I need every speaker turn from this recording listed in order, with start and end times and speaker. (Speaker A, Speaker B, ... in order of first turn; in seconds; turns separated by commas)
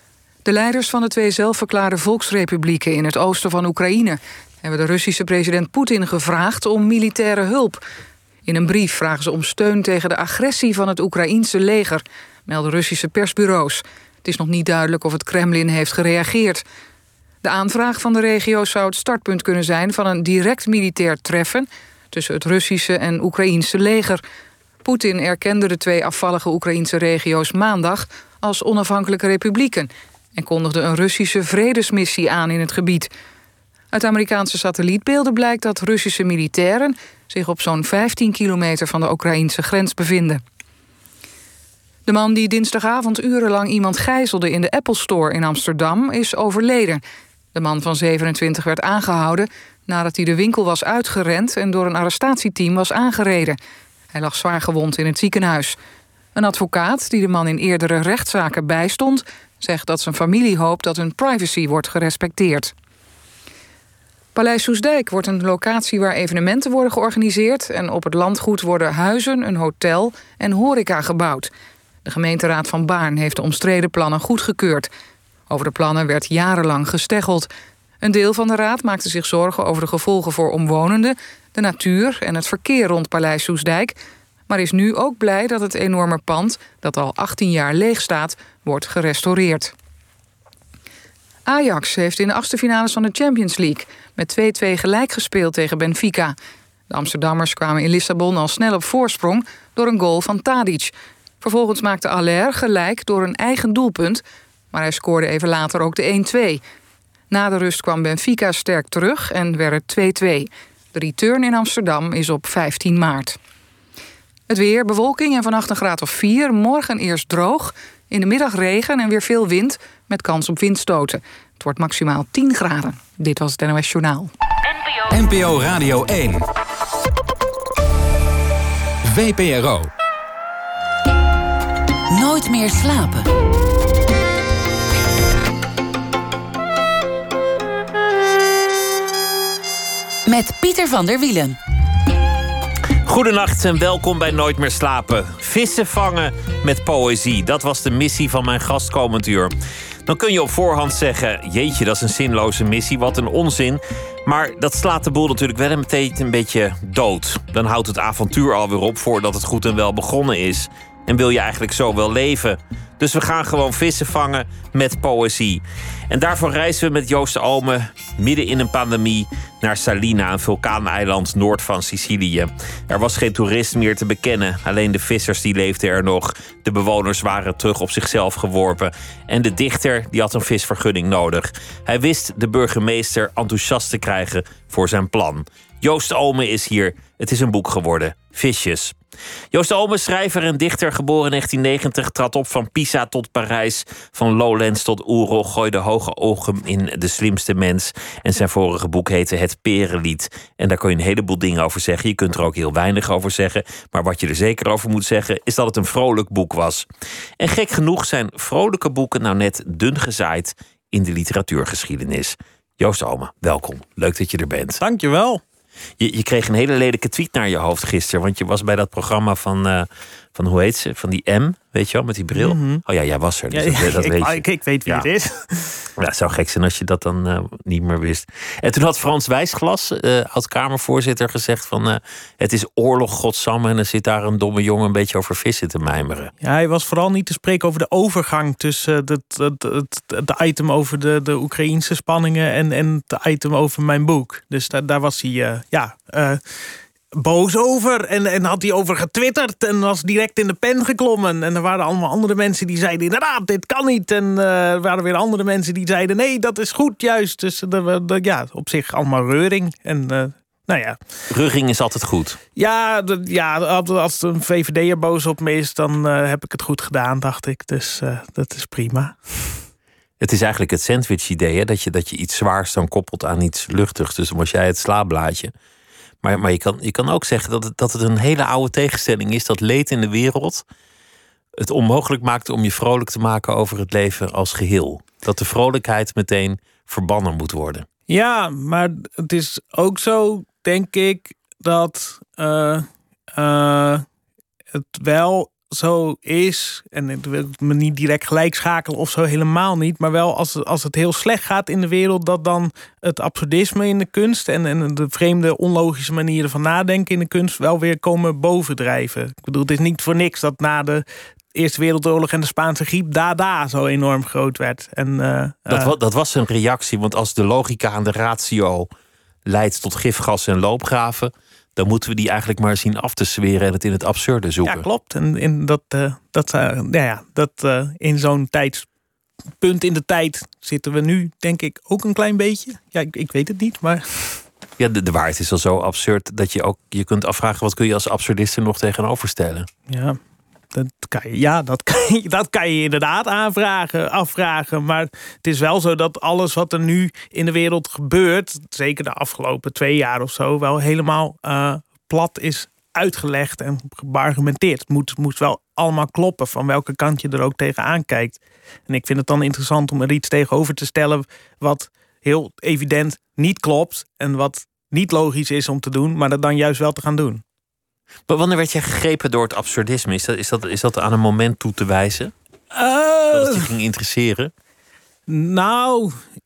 Speaker A: 0.5-7.8, Speaker A: 8.5-16.6, Speaker A: 17.4-24.2, Speaker A: 24.8-33.1, Speaker A: 33.9-40.4, Speaker A: 42.1-47.0, Speaker A: 47.5-53.6, Speaker A: 54.1-55.8, Speaker A: 56.3-62.7, Speaker A: 64.3-71.5, Speaker A: 72.0-74.9, Speaker A: 75.5-77.5, Speaker A: 78.0-83.9, Speaker A: 84.5-89.7, Speaker A: 91.5-96.3, Speaker A: 96.9-106.6, Speaker A: 107.3-113.4, Speaker A: 114.5-124.3, Speaker B: 125.1-126.5, Speaker B: 129.0-129.9, Speaker C: 132.1-133.3, Speaker C: 140.2-141.6, Speaker D: 143.0-149.5, Speaker D: 150.0-188.9, Speaker D: 189.5-206.9, Speaker D: 207.4-214.8, Speaker E: 214.8-215.4, Speaker D: 216.0-225.1, Speaker E: 222.3-222.8, Speaker E: 223.5-225.9, Speaker D: 226.0-236.3, Speaker E: 236.4-246.4, Speaker E: 247.1-261.0, Speaker D: 261.3-262.4, Speaker E: 262.6-269.2, Speaker D: 270.2-275.5, Speaker D: 276.2-280.6, Speaker D: 281.6-287.9, Speaker E: 288.1-294.1, Speaker E: 294.7-315.9, Speaker D: 315.7-318.9, Speaker D: 319.5-324.9, Speaker E: 324.6-328.9, Speaker E: 329.6-334.4, Speaker D: 334.8-339.7, Speaker E: 339.9-340.2, Speaker E: 340.7-367.4, Speaker D: 368.3-372.3, Speaker E: 372.7-373.7, Speaker D: 373.3-374.5, Speaker E: 375.3-376.2